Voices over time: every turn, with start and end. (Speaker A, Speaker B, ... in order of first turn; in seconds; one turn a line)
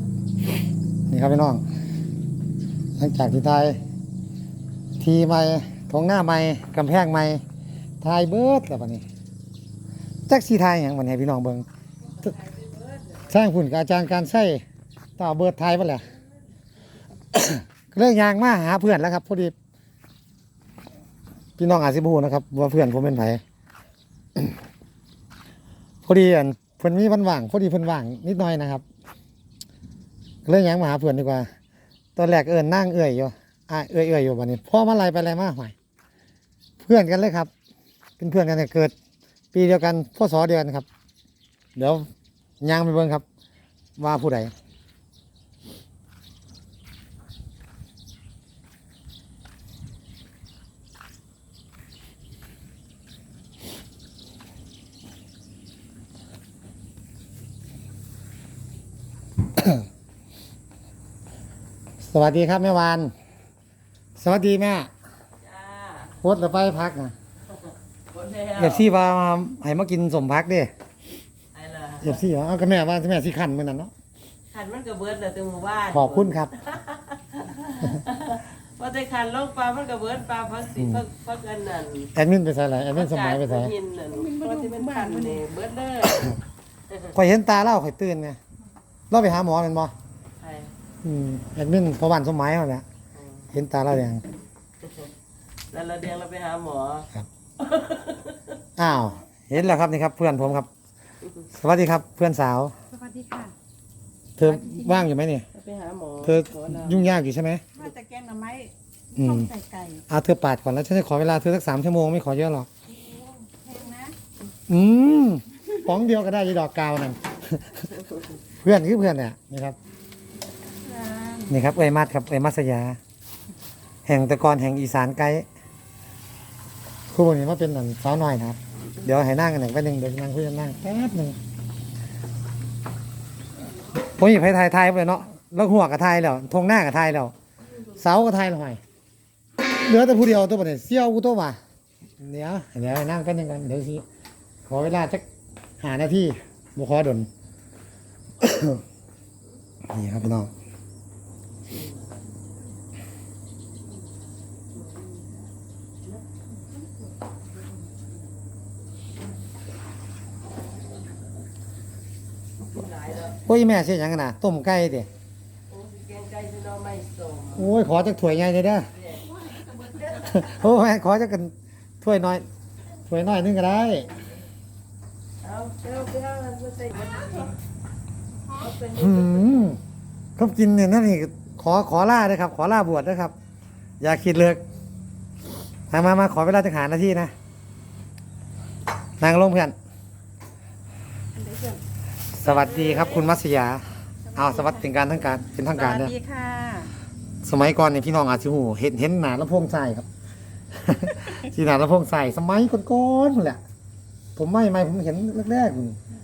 Speaker A: 1.1-1.6
Speaker A: 3.0-3.8
Speaker A: 5.0-7.4
Speaker A: 8.0-9.0
Speaker A: 10.3-11.6
Speaker A: 13.3-14.6
Speaker A: 15.2-16.1
Speaker A: 17.3-19.5
Speaker A: 21.6-23.4
Speaker A: 26.1-28.8
Speaker A: 30.4-31.5
Speaker A: 32.1-35.7
Speaker A: 36.8-37.5
Speaker A: 38.2-38.9
Speaker A: 39.5-40.9
Speaker A: 41.8-42.1
Speaker A: 42.6-43.2
Speaker A: 44.0-44.5
Speaker A: 62.0-63.1
Speaker A: 64.2-64.9
Speaker B: 65.4-66.1
Speaker A: 66.2-67.1
Speaker B: 68.1-68.8
Speaker A: 68.6-70.7
Speaker B: 71.5-72.1
Speaker A: 72.0-73.9
Speaker B: 74.5-82.1
Speaker A: 75.9-76.5
Speaker A: 80.8-81.0
Speaker A: 82.1-83.7
Speaker B: 82.9-86.4
Speaker C: 84.1-85.4
Speaker A: 87.1-88.4
Speaker A: 89.1-89.9
Speaker B: 90.4-90.7
Speaker A: 91.0-92.8
Speaker B: 93.2-93.4
Speaker A: 93.5-94.2
Speaker B: 95.7-98.4
Speaker A: 98.8-100.7
Speaker A: 101.5-102.7
Speaker C: 102.9-103.5
Speaker A: 104.4-105.5
Speaker C: 104.4-105.1
Speaker B: 105.5-107.1
Speaker A: 106.2-107.6
Speaker C: 107.7-110.0
Speaker A: 109.2-109.5
Speaker A: 110.1-112.7
Speaker C: 113.0-114.2
Speaker A: 114.7-117.9
Speaker A: 118.6-119.8
Speaker C: 120.8-121.5
Speaker A: 121.5-123.0
Speaker A: 124.0-125.5
Speaker A: 127.1-131.4
Speaker A: 134.1-137.3
Speaker A: 137.9-138.8
Speaker A: 139.8-141.6
Speaker A: 142.2-144.0
Speaker A: 144.7-145.2
Speaker A: 145.8-147.3
Speaker A: 148.4-148.8
Speaker A: 149.9-150.5
Speaker B: 162.7-163.3
Speaker A: 163.3-165.1
Speaker B: 165.7-167.7
Speaker A: 167.5-168.9
Speaker B: 169.0-169.3
Speaker A: 170.1-172.4
Speaker A: 173.1-174.1
Speaker B: 175.4-177.5
Speaker B: 178.5-179.7
Speaker A: 178.9-179.8
Speaker A: 180.4-183.3
Speaker A: 184.0-184.6
Speaker A: 185.9-187.3
Speaker A: 189.2-189.7
Speaker C: 191.3-191.8
Speaker A: 192.3-193.8
Speaker B: 192.7-193.2
Speaker C: 194.2-194.9
Speaker A: 194.3-196.1
Speaker C: 195.7-196.9
Speaker A: 197.4-200.1
Speaker A: 200.8-203.6
Speaker A: 204.3-206.0